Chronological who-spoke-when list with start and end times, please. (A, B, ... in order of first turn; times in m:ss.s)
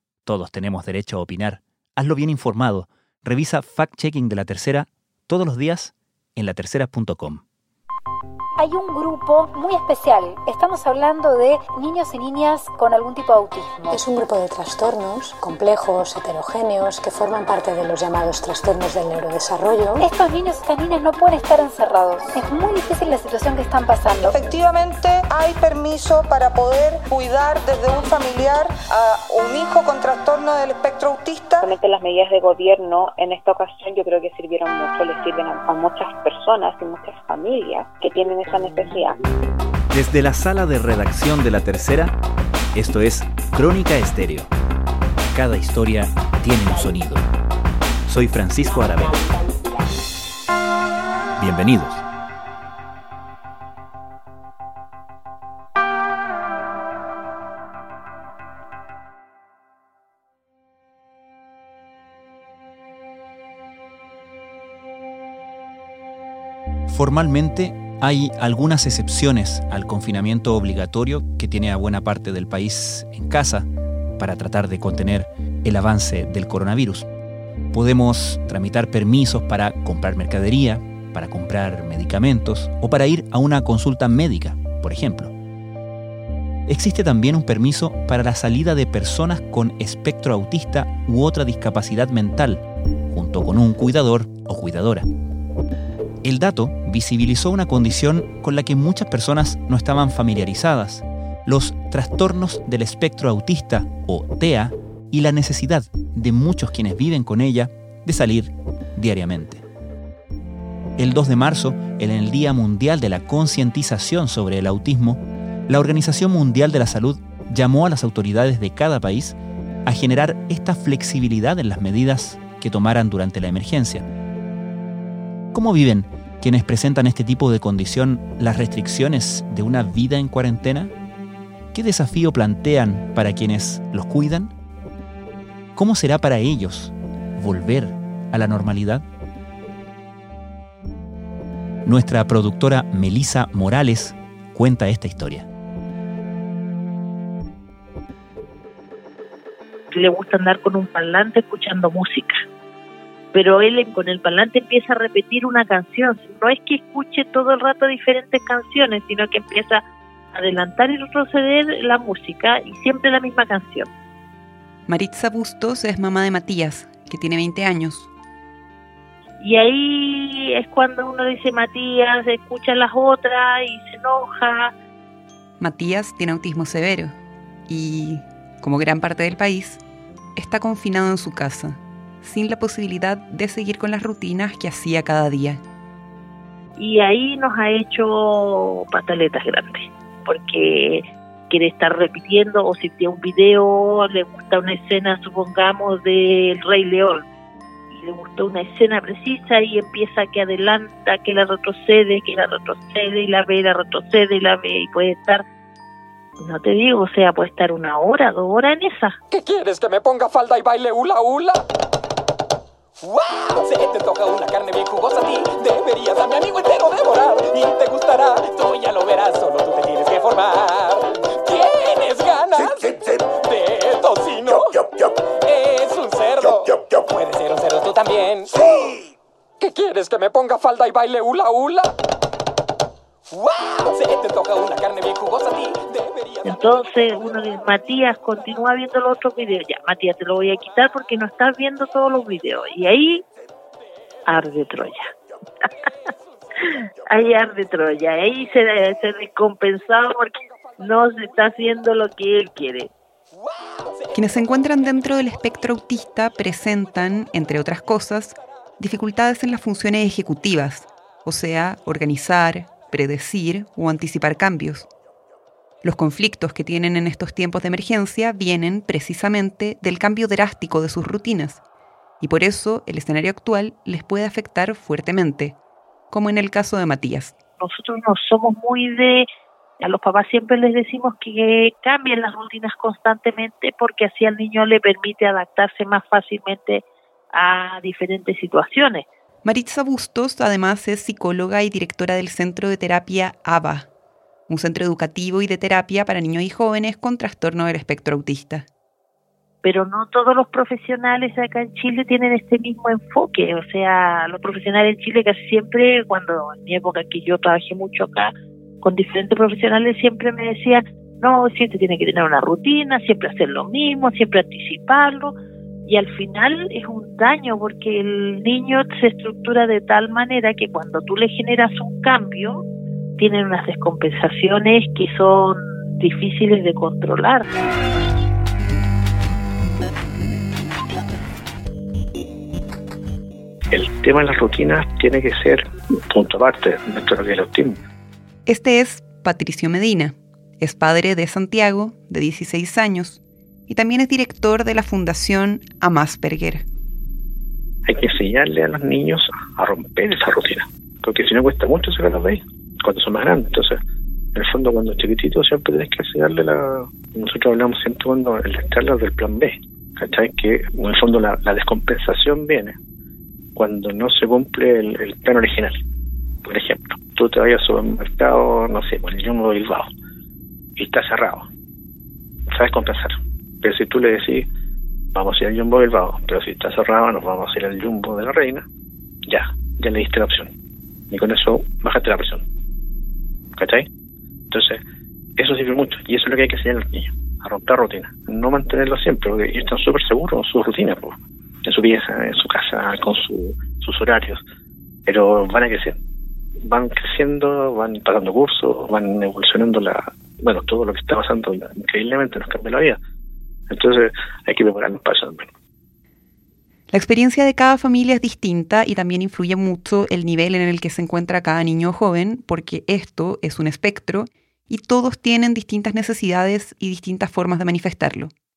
0:00.2-0:07.4 A
0:08.6-0:14.0 B
0:13.9-0:20.0 C
0:20.0-0:24.4 B
0:24.2-0:31.7 D
0:31.8-0:39.1 E
0:39.9-0:42.1 A
0:42.7-0:44.5 A
0:45.3-0:47.3 A
0:48.0-0:49.2 A
0:51.4-0:52.0 A
1:06.9-1:13.6 A
1:14.2-1:17.1 A
1:17.7-1:25.3 A
1:26.7-1:35.0 A
1:36.2-1:49.6 A
1:51.0-2:04.0 A
2:05.5-2:10.9 A
2:11.7-2:14.5 A
2:15.7-2:19.0 A
2:21.8-2:25.5 A
2:29.9-2:32.4 F
2:33.3-2:39.8 F
2:40.3-2:43.9 F
2:44.9-2:48.1 G
2:49.4-2:54.7 F
2:55.6-2:57.1 G
2:57.7-2:59.8 G
3:00.4-3:05.6 G
3:06.8-3:17.2 F
3:17.9-3:25.4 F
3:26.4-3:29.2 F
3:29.3-3:31.6 H
3:33.0-3:44.7 H
3:45.4-3:49.0 H
3:49.6-3:51.9 H
3:53.3-3:56.5 H
3:56.4-4:03.2 F
4:04.3-4:05.0 F
4:06.6-4:12.9 F
4:14.1-4:24.9 G
4:25.8-4:31.6 G
4:32.2-4:35.6 G
4:36.1-4:37.3 G
4:37.6-4:39.2 F
4:39.8-4:49.0 F
4:49.4-4:53.9 G
4:54.5-4:58.7 G
4:59.6-5:15.3 F
5:15.9-5:22.6 F
5:23.2-5:27.5 F
5:33.7-5:37.8 I
5:38.5-5:46.6 G
5:47.8-5:53.8 I
5:54.3-6:02.8 I
6:03.5-6:05.8 I
6:06.4-6:09.9 I
6:10.8-6:11.5 I
6:12.5-6:14.5 I
6:15.1-6:18.6 I
6:19.3-6:20.5 I
6:21.1-6:22.4 I
6:23.6-6:23.8 I
6:24.5-6:24.8 I
6:25.4-6:34.4 I
6:35.0-6:36.0 I
6:36.6-6:43.0 I
6:43.7-6:45.5 I
6:46.9-6:58.3 G